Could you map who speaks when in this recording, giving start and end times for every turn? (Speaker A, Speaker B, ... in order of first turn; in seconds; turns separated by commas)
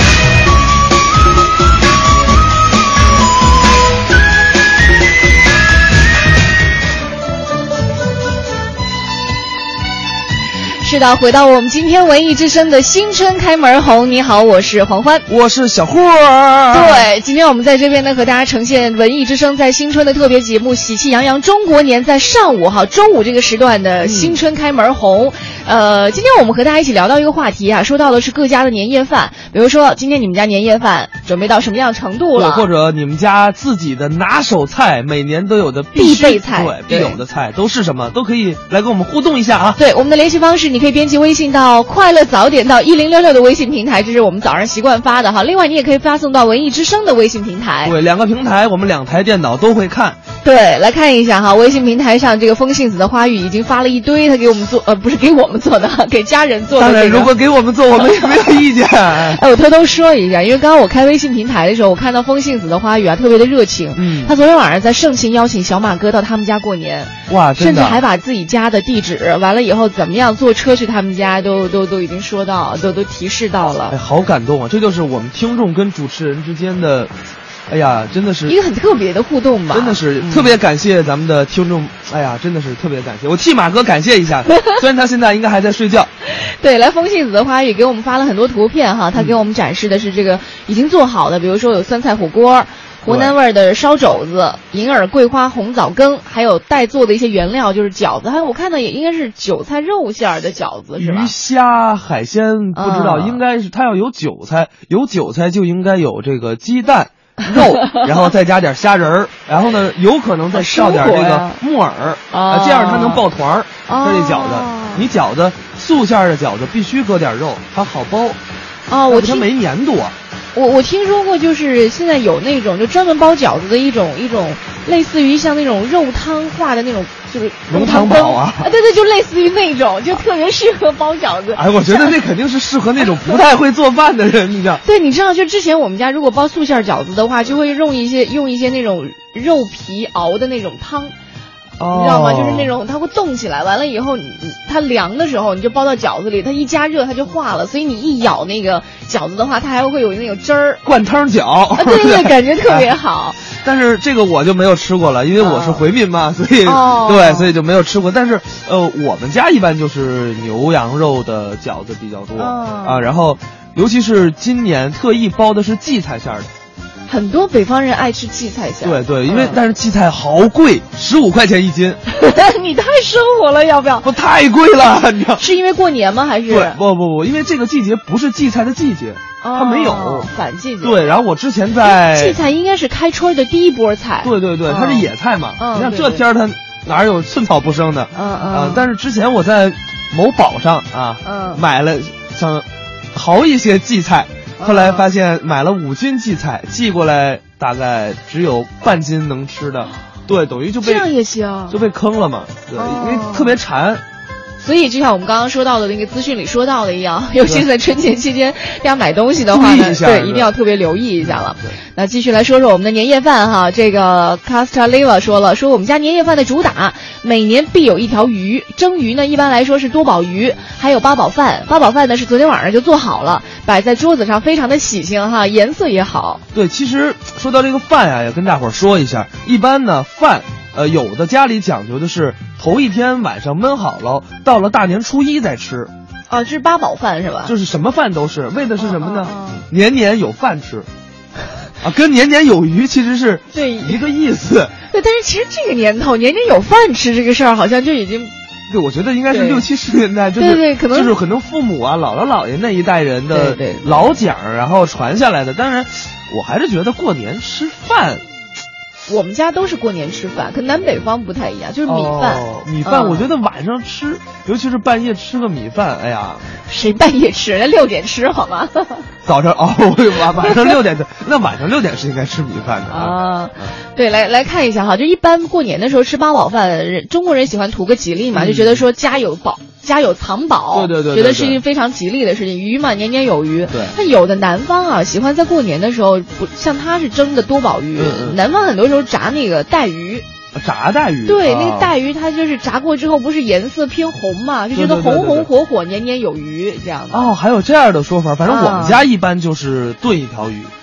Speaker A: 10.8-15.3, Speaker B: 15.3-17.1, Speaker A: 16.7-32.7, Speaker B: 24.0-24.4, Speaker B: 32.4-39.8, Speaker A: 36.0-37.2, Speaker A: 39.8-48.0, Speaker B: 47.8-50.2, Speaker A: 50.4-57.3, Speaker B: 56.8-59.4, Speaker A: 58.0-58.6, Speaker A: 59.1-74.0, Speaker B: 64.0-64.3, Speaker B: 67.3-68.0, Speaker B: 73.9-77.1, Speaker B: 77.7-78.6, Speaker A: 78.5-80.6, Speaker B: 79.7-86.1, Speaker A: 86.4-101.3, Speaker B: 93.1-93.3, Speaker B: 101.0-118.4, Speaker A: 102.8-103.4, Speaker A: 110.5-111.6, Speaker A: 112.3-113.2, Speaker A: 113.9-115.1, Speaker A: 118.9-119.5, Speaker B: 119.1-120.2, Speaker A: 120.5-132.2, Speaker B: 127.7-128.7, Speaker B: 131.6-134.8, Speaker A: 134.8-141.1, Speaker B: 141.8-142.7, Speaker A: 141.9-150.8, Speaker B: 150.8-152.9, Speaker A: 151.8-153.4, Speaker B: 153.6-166.5, Speaker A: 155.4-155.8, Speaker A: 156.6-157.5, Speaker A: 162.4-163.1, Speaker A: 167.1-169.6, Speaker B: 168.8-172.0, Speaker A: 172.2-174.1, Speaker B: 174.0-175.4, Speaker A: 175.4-176.8, Speaker B: 176.5-182.4, Speaker A: 179.4-181.0, Speaker A: 181.8-186.2, Speaker B: 184.2-201.1, Speaker A: 188.1-188.9, Speaker A: 191.2-191.6, Speaker A: 194.6-195.1, Speaker A: 200.8-201.8, Speaker B: 201.7-204.0, Speaker A: 202.8-203.6, Speaker A: 204.6-226.4, Speaker B: 209.5-210.5, Speaker B: 211.2-211.8, Speaker B: 226.5-235.9, Speaker A: 236.3-237.5, Speaker B: 237.4-240.9, Speaker A: 238.8-239.7, Speaker B: 241.8-244.7, Speaker A: 243.5-244.0, Speaker A: 244.9-248.3, Speaker B: 248.7-258.2, Speaker A: 249.3-249.7, Speaker A: 250.4-251.2, Speaker A: 253.3-253.9, Speaker A: 259.1-263.3, Speaker B: 261.9-266.4, Speaker A: 266.7-269.0, Speaker B: 269.2-273.7, Speaker A: 270.4-270.8, Speaker A: 272.9-290.2, Speaker B: 278.3-278.8, Speaker B: 280.7-281.6, Speaker B: 283.7-284.0, Speaker B: 287.9-288.4, Speaker B: 290.6-291.9, Speaker A: 291.3-297.3, Speaker B: 294.7-295.5, Speaker B: 297.1-300.7, Speaker A: 298.4-299.0